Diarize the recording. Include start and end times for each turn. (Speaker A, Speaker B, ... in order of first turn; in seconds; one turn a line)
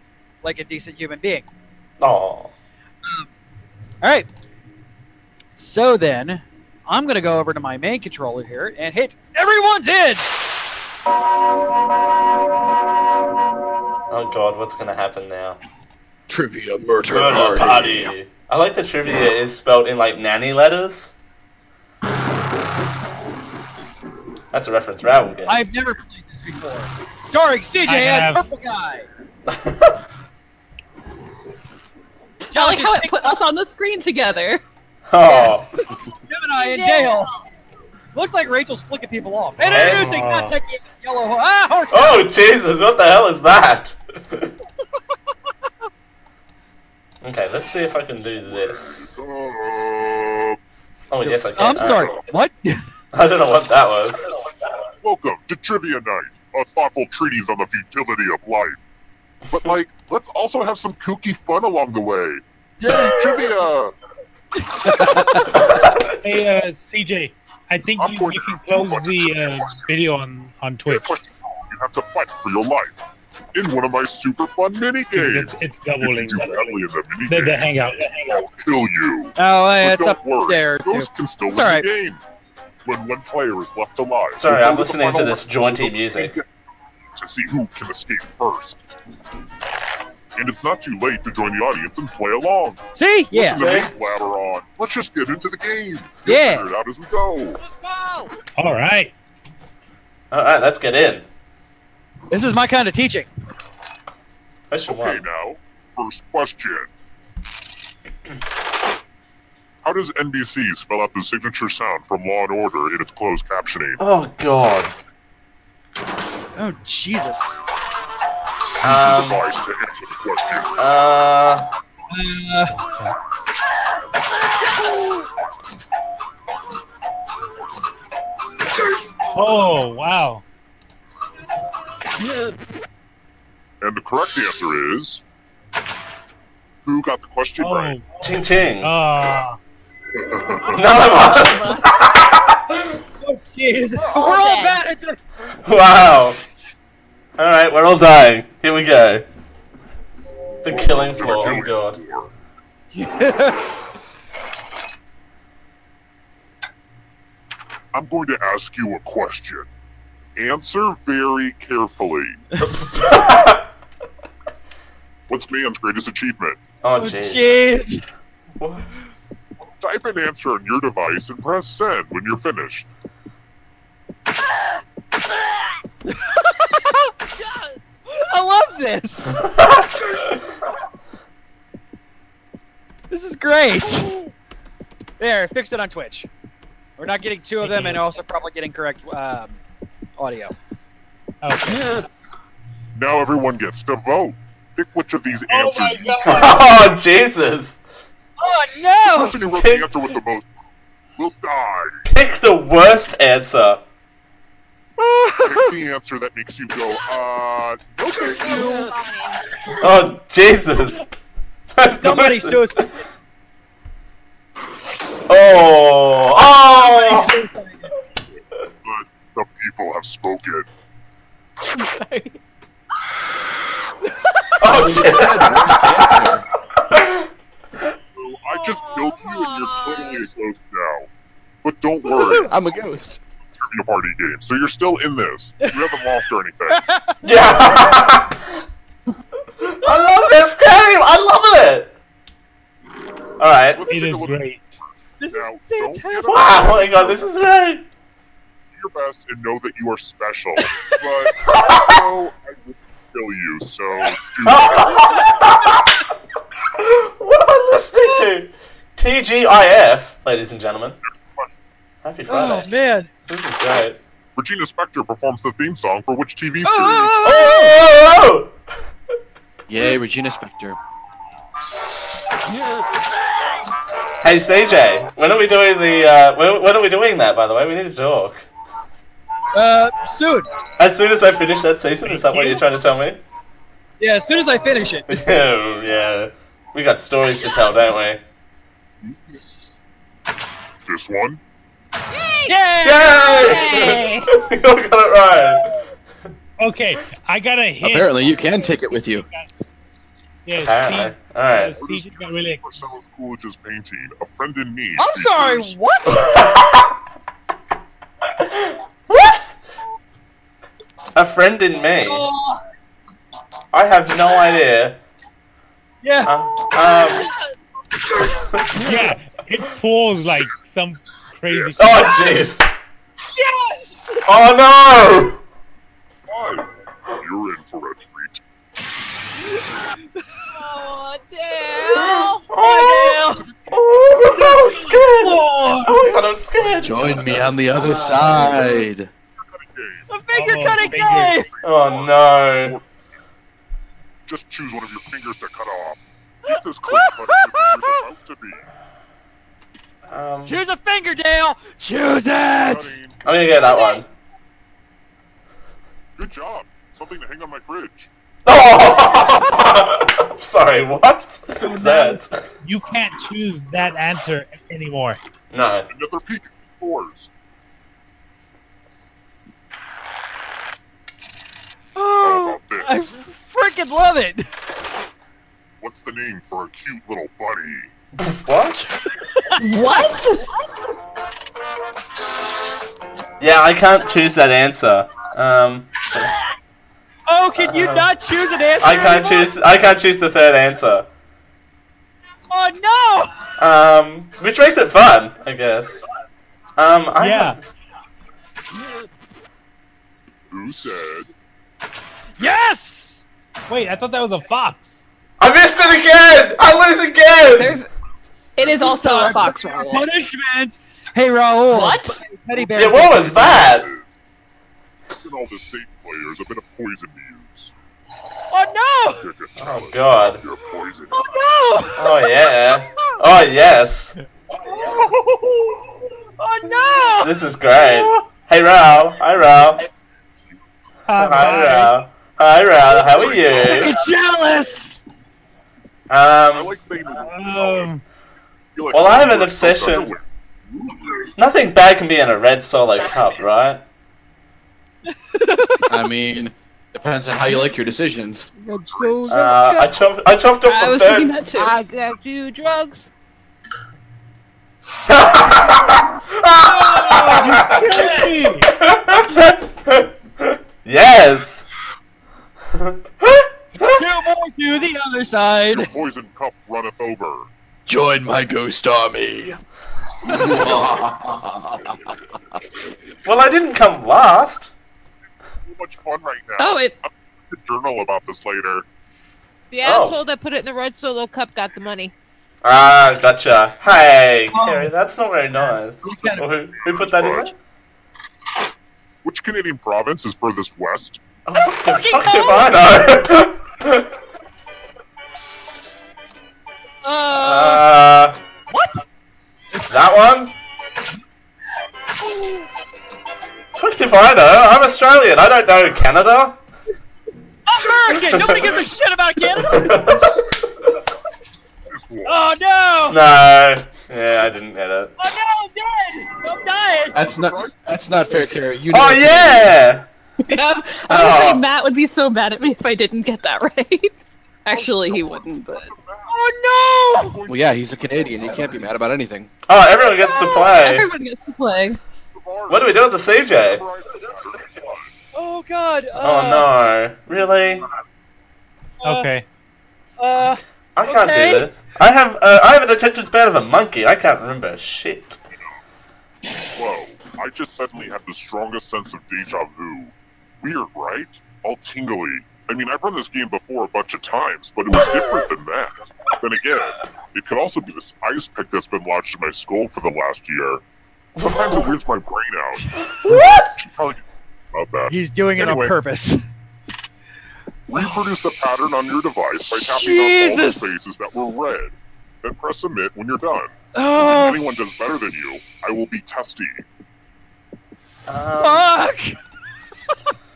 Speaker A: 0.4-1.5
Speaker B: 2.0-2.5
Speaker A: 4.0-4.3
Speaker A: 5.6-10.3
Speaker B: 14.1-15.6
Speaker C: 16.3-18.1
Speaker B: 17.1-21.1
Speaker B: 24.5-25.6
Speaker A: 25.5-29.1
Speaker D: 27.9-28.4
Speaker B: 29.5-30.0
Speaker A: 32.5-33.3
Speaker E: 32.5-34.6
Speaker B: 35.1-35.7
Speaker A: 36.3-37.3
Speaker F: 36.6-37.2
Speaker A: 38.1-42.2
Speaker D: 39.7-40.5
Speaker B: 39.7-40.2
Speaker B: 41.9-44.5
Speaker B: 47.2-49.2
Speaker G: 48.3-50.6
Speaker B: 51.1-52.1
Speaker A: 51.2-52.8
Speaker G: 51.8-52.2
Speaker B: 53.1-54.3
Speaker G: 55.0-58.8
Speaker G: 59.5-63.9
Speaker B: 65.5-66.1
Speaker D: 66.2-71.2
Speaker G: 67.9-69.9
Speaker G: 70.8-73.0
Speaker G: 73.5-82.2
Speaker D: 75.1-76.5
Speaker D: 77.2-78.3
Speaker A: 79.4-81.8
Speaker G: 82.8-86.4
Speaker B: 84.3-86.4
Speaker G: 87.1-88.8
Speaker G: 90.3-97.6
Speaker A: 93.0-93.6
Speaker B: 93.5-93.9
Speaker A: 96.2-96.7
Speaker D: 98.6-99.1
Speaker B: 100.3-101.2
Speaker A: 102.3-103.3
Speaker B: 104.7-105.2
Speaker G: 104.9-106.9
Speaker G: 109.8-114.0
Speaker B: 114.0-114.9
Speaker A: 116.5-117.6
Speaker B: 118.8-119.4
Speaker G: 118.8-120.7
Speaker B: 120.8-121.7
Speaker A: 122.1-122.8
Speaker D: 129.3-130.4
Speaker G: 133.8-135.2
Speaker G: 136.8-138.0
Speaker D: 137.6-138.1
Speaker B: 138.2-138.9
Speaker D: 138.8-139.6
Speaker G: 140.2-140.9
Speaker B: 140.7-143.0
Speaker E: 140.7-141.9
Speaker A: 143.2-145.2
Speaker E: 144.0-144.8
Speaker B: 145.6-146.4
Speaker B: 147.4-149.2
Speaker B: 150.6-152.0
Speaker G: 150.7-152.3
Speaker A: 152.9-153.7
Speaker G: 157.9-159.7
Speaker G: 160.3-162.4
Speaker B: 162.8-163.6
Speaker G: 165.3-166.6
Speaker B: 166.8-167.6
Speaker A: 167.0-168.0
Speaker B: 168.6-168.9
Speaker G: 169.8-172.8
Speaker A: 176.1-177.1
Speaker A: 178.1-179.5
Speaker A: 183.1-184.2
Speaker A: 185.2-186.3
Speaker A: 187.0-189.6
Speaker D: 187.6-188.0
Speaker A: 190.2-190.5
Speaker D: 191.4-192.0
Speaker G: 192.9-196.4
Speaker D: 195.5-196.6
Speaker B: 196.2-197.8
Speaker A: 198.4-199.4
Speaker G: 199.0-200.5
Speaker B: 199.5-199.9
Speaker G: 201.2-201.9
Speaker B: 202.1-203.8
Speaker A: 205.0-205.7
Speaker G: 205.4-208.9
Speaker F: 208.3-209.4
Speaker A: 208.5-208.7
Speaker B: 209.8-211.1
Speaker B: 211.7-212.7
Speaker A: 212.0-212.9
Speaker B: 215.3-217.3
Speaker A: 216.7-217.9
Speaker G: 218.8-220.7
Speaker B: 224.6-225.9
Speaker C: 224.6-226.4
Speaker B: 226.9-227.2
Speaker G: 228.1-231.1
Speaker F: 228.7-230.2
Speaker G: 231.6-232.5
Speaker C: 232.4-233.2
Speaker G: 233.7-236.8
Speaker A: 236.7-237.2
Speaker B: 237.2-238.4
Speaker B: 239.6-241.9
Speaker B: 243.4-243.8
Speaker G: 243.7-244.6
Speaker D: 243.9-244.7
Speaker A: 245.2-246.5
Speaker G: 245.2-247.3
Speaker B: 246.3-247.8
Speaker G: 248.7-255.3
Speaker B: 254.4-255.9
Speaker B: 256.8-261.0
Speaker G: 261.0-261.5
Speaker B: 262.0-262.7
Speaker A: 262.3-263.1
Speaker B: 263.3-264.0
Speaker G: 264.4-267.2
Speaker A: 266.6-267.8
Speaker B: 267.2-268.5
Speaker C: 269.7-270.8
Speaker B: 274.2-278.4
Speaker A: 279.5-280.5
Speaker B: 280.8-283.2
Speaker D: 282.1-282.6
Speaker A: 284.0-285.1
Speaker B: 285.1-288.2
Speaker G: 290.9-291.4
Speaker F: 292.1-292.5
Speaker A: 292.5-293.5
Speaker B: 292.8-295.7
Speaker E: 293.4-294.3
Speaker D: 296.6-299.5
Speaker C: 297.8-299.3
Speaker D: 300.4-302.6
Speaker B: 300.6-301.7
Speaker G: 301.7-305.8
Speaker A: 305.0-306.3
Speaker B: 306.2-306.9
Speaker B: 308.4-309.6
Speaker B: 311.1-312.3
Speaker A: 312.0-312.6
Speaker B: 313.7-315.0
Speaker A: 316.0-316.3
Speaker B: 316.2-317.3
Speaker D: 318.7-322.1
Speaker G: 321.5-322.0
Speaker B: 321.8-322.7
Speaker A: 323.3-324.3
Speaker B: 324.2-325.4
Speaker G: 326.3-328.4
Speaker A: 330.1-330.7
Speaker F: 330.6-332.4
Speaker B: 331.9-337.4
Speaker A: 332.5-333.4
Speaker G: 333.3-334.4
Speaker A: 334.3-335.9
Speaker G: 336.6-337.4
Speaker C: 336.8-339.1
Speaker G: 339.4-342.9
Speaker A: 340.1-341.5
Speaker D: 340.3-341.4
Speaker B: 341.6-342.8
Speaker G: 344.3-348.6
Speaker A: 346.9-348.0
Speaker B: 350.1-350.6
Speaker A: 350.4-353.0
Speaker G: 352.6-353.2
Speaker B: 353.2-354.1
Speaker G: 356.1-358.1
Speaker B: 358.4-362.4
Speaker D: 361.6-365.2
Speaker B: 365.5-365.9
Speaker G: 365.9-367.3
Speaker A: 371.9-374.5
Speaker G: 372.2-373.1
Speaker G: 375.8-377.9
Speaker B: 378.2-378.9
Speaker E: 379.6-380.5
Speaker B: 383.4-386.3
Speaker A: 387.3-389.5
Speaker B: 387.6-388.1
Speaker B: 388.8-391.1
Speaker A: 392.5-393.3
Speaker B: 393.6-396.0
Speaker B: 396.8-397.6
Speaker D: 397.2-397.6
Speaker G: 400.5-401.3
Speaker A: 402.4-403.2
Speaker D: 403.7-405.0
Speaker B: 405.4-407.8
Speaker E: 407.5-407.9
Speaker E: 408.6-410.1
Speaker A: 408.7-413.7
Speaker E: 411.7-412.2
Speaker B: 412.7-413.9
Speaker G: 413.1-414.1
Speaker G: 415.1-417.7
Speaker A: 418.5-419.2
Speaker G: 419.1-421.4
Speaker B: 419.6-420.4
Speaker A: 421.1-422.1
Speaker B: 421.9-424.1
Speaker G: 424.7-425.7
Speaker A: 426.4-427.3
Speaker B: 427.2-429.8
Speaker D: 431.1-431.9
Speaker B: 431.1-433.9
Speaker G: 432.9-433.9
Speaker A: 433.6-435.0
Speaker B: 436.1-436.8
Speaker G: 436.5-437.9
Speaker D: 437.1-438.0
Speaker G: 438.7-441.3
Speaker B: 438.9-440.1
Speaker B: 441.4-443.8
Speaker A: 445.3-445.8
Speaker C: 445.9-448.5
Speaker F: 448.5-449.9
Speaker G: 448.9-449.2
Speaker B: 449.3-451.3
Speaker E: 450.6-451.7
Speaker F: 451.5-453.1
Speaker B: 455.1-457.9
Speaker A: 457.1-458.3
Speaker D: 457.2-458.7
Speaker B: 458.7-461.6
Speaker B: 462.7-464.0
Speaker A: 463.8-465.9
Speaker G: 465.7-467.5
Speaker C: 467.9-469.6
Speaker C: 470.3-471.9
Speaker B: 473.2-474.7
Speaker G: 475.6-478.9
Speaker E: 476.6-476.9
Speaker F: 479.7-482.1
Speaker B: 479.8-480.2
Speaker B: 482.6-487.5
Speaker A: 484.5-484.9
Speaker A: 485.6-486.5
Speaker G: 486.1-487.5
Speaker G: 489.2-491.2
Speaker B: 491.4-494.1
Speaker A: 491.8-492.7
Speaker A: 497.0-497.9
Speaker B: 497.4-498.4
Speaker A: 498.7-499.0
Speaker B: 499.9-500.5
Speaker B: 503.8-506.6
Speaker A: 507.6-510.0
Speaker B: 508.3-508.6
Speaker B: 509.7-510.4
Speaker G: 511.9-512.4
Speaker A: 512.2-513.2
Speaker B: 513.1-515.1
Speaker A: 515.2-517.2
Speaker C: 517.1-519.8
Speaker G: 517.1-518.5
Speaker B: 518.9-520.0
Speaker E: 520.4-525.9
Speaker B: 521.1-521.6
Speaker G: 524.7-526.4
Speaker A: 526.3-527.4
Speaker G: 527.1-528.9
Speaker C: 527.5-529.5
Speaker B: 529.6-531.1
Speaker E: 530.3-532.0
Speaker G: 532.3-535.1
Speaker B: 532.7-533.8
Speaker A: 535.3-536.7
Speaker B: 536.2-537.9
Speaker A: 539.0-539.3
Speaker D: 539.0-539.5
Speaker A: 540.2-541.7
Speaker B: 541.0-545.4
Speaker G: 546.7-560.8
Speaker G: 561.4-566.0
Speaker B: 561.4-561.8
Speaker B: 563.2-563.7
Speaker A: 565.1-566.4
Speaker G: 567.9-576.8
Speaker A: 569.7-570.9
Speaker A: 573.9-574.6
Speaker B: 578.3-578.9
Speaker A: 578.6-579.4